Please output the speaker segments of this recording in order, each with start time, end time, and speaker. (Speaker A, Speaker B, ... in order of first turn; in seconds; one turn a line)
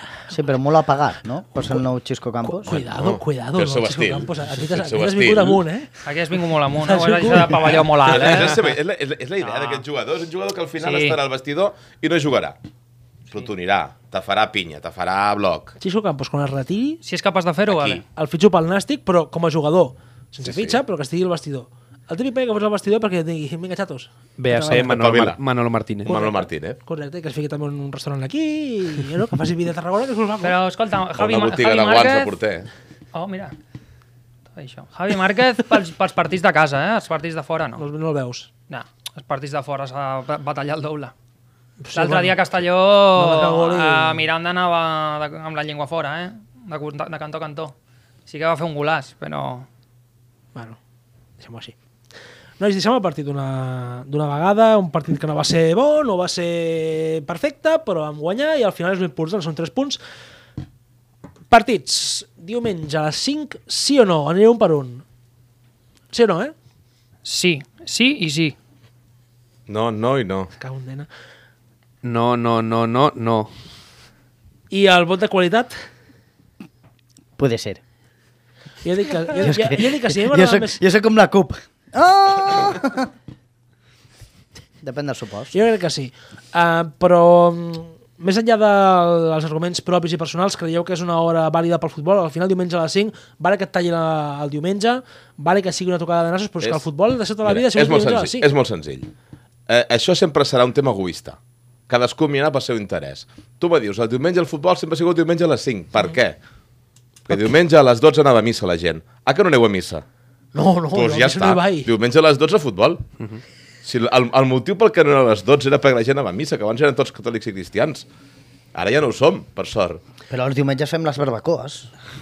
Speaker A: 0.3-2.8
Speaker B: 2.4-6.0
Speaker C: 2.7-5.6
Speaker D: 6.0-8.7
Speaker B: 6.8-8.1
Speaker C: 8.0-12.6
Speaker D: 9.4-9.8
Speaker D: 10.8-11.2
Speaker C: 13.3-15.8
Speaker B: 15.8-17.0
Speaker D: 17.0-18.0
Speaker C: 17.7-18.0
Speaker B: 18.1-25.0
Speaker C: 20.4-20.8
Speaker E: 24.4-26.2
Speaker C: 24.7-25.4
Speaker C: 26.0-26.8
Speaker B: 26.1-30.6
Speaker D: 30.4-32.4
Speaker C: 31.2-32.7
Speaker D: 33.1-33.5
Speaker D: 34.6-37.9
Speaker B: 37.8-38.5
Speaker D: 38.7-41.1
Speaker B: 41.8-42.4
Speaker D: 41.9-47.8
Speaker B: 43.1-44.3
Speaker D: 48.3-49.7
Speaker B: 51.4-51.8
Speaker B: 52.6-60.0
Speaker B: 61.5-65.0
Speaker B: 66.1-66.5
Speaker D: 67.2-68.5
Speaker C: 69.7-70.5
Speaker B: 70.6-71.1
Speaker E: 72.0-73.5
Speaker B: 74.7-75.7
Speaker A: 77.4-77.8
Speaker B: 78.8-80.8
Speaker A: 79.3-83.1
Speaker A: 84.8-85.5
Speaker B: 85.5-98.5
Speaker C: 97.4-99.1
Speaker C: 99.7-106.4
Speaker C: 107.3-110.0
Speaker B: 110.5-111.9
Speaker C: 110.9-113.1
Speaker C: 113.8-118.1
Speaker C: 118.7-120.0
Speaker A: 120.3-121.9